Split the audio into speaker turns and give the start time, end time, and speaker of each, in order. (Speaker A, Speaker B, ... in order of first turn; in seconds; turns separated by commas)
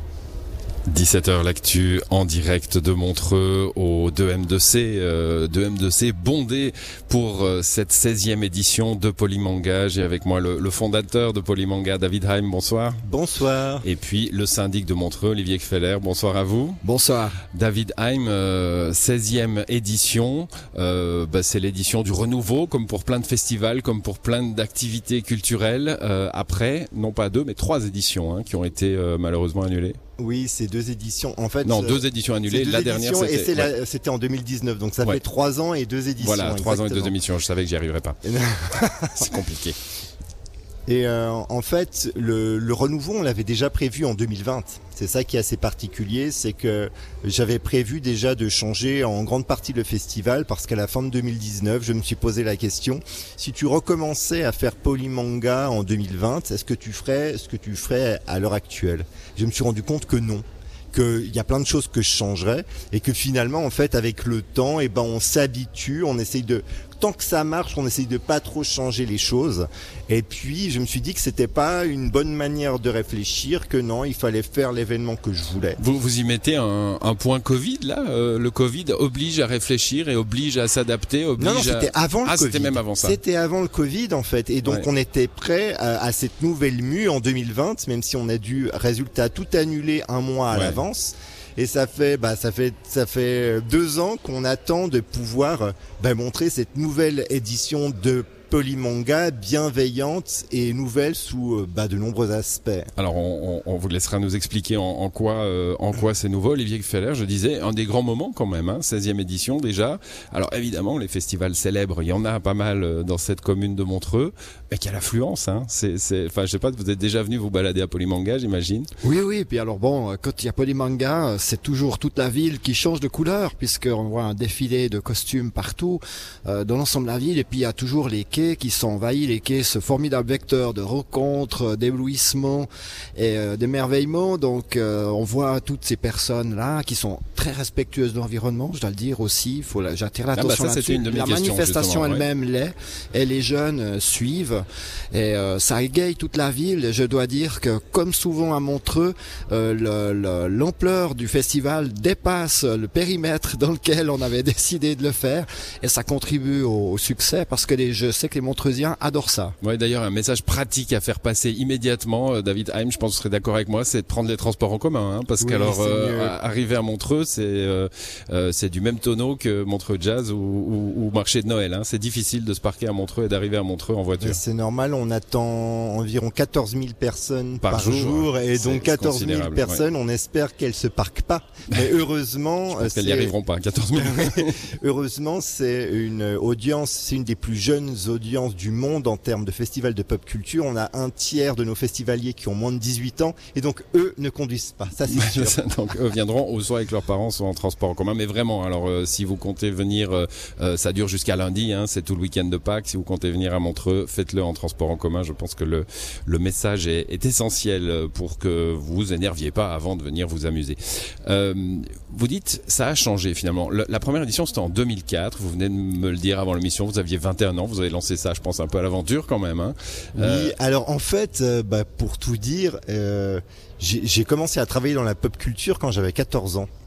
Speaker A: 0.9-13.0, Speaker B: 13.0-13.8, Speaker A: 13.8-16.8, Speaker C: 16.8-17.4, Speaker A: 17.5-30.0, Speaker B: 30.2-37.1, Speaker A: 31.6-33.7, Speaker A: 36.2-38.2, Speaker B: 38.2-39.3, Speaker A: 39.2-39.8, Speaker B: 40.9-75.8, Speaker A: 75.8-83.2, Speaker B: 81.4-102.9, Speaker A: 90.5-90.8, Speaker A: 103.0-118.9, Speaker C: 119.0-159.5, Speaker A: 140.3-142.3, Speaker A: 159.6-174.4, Speaker C: 165.4-165.7, Speaker B: 165.6-166.3, Speaker B: 174.2-183.3, Speaker A: 177.6-179.8, Speaker A: 182.7-184.6, Speaker B: 183.9-195.6, Speaker A: 195.1-220.6, Speaker B: 220.2-226.7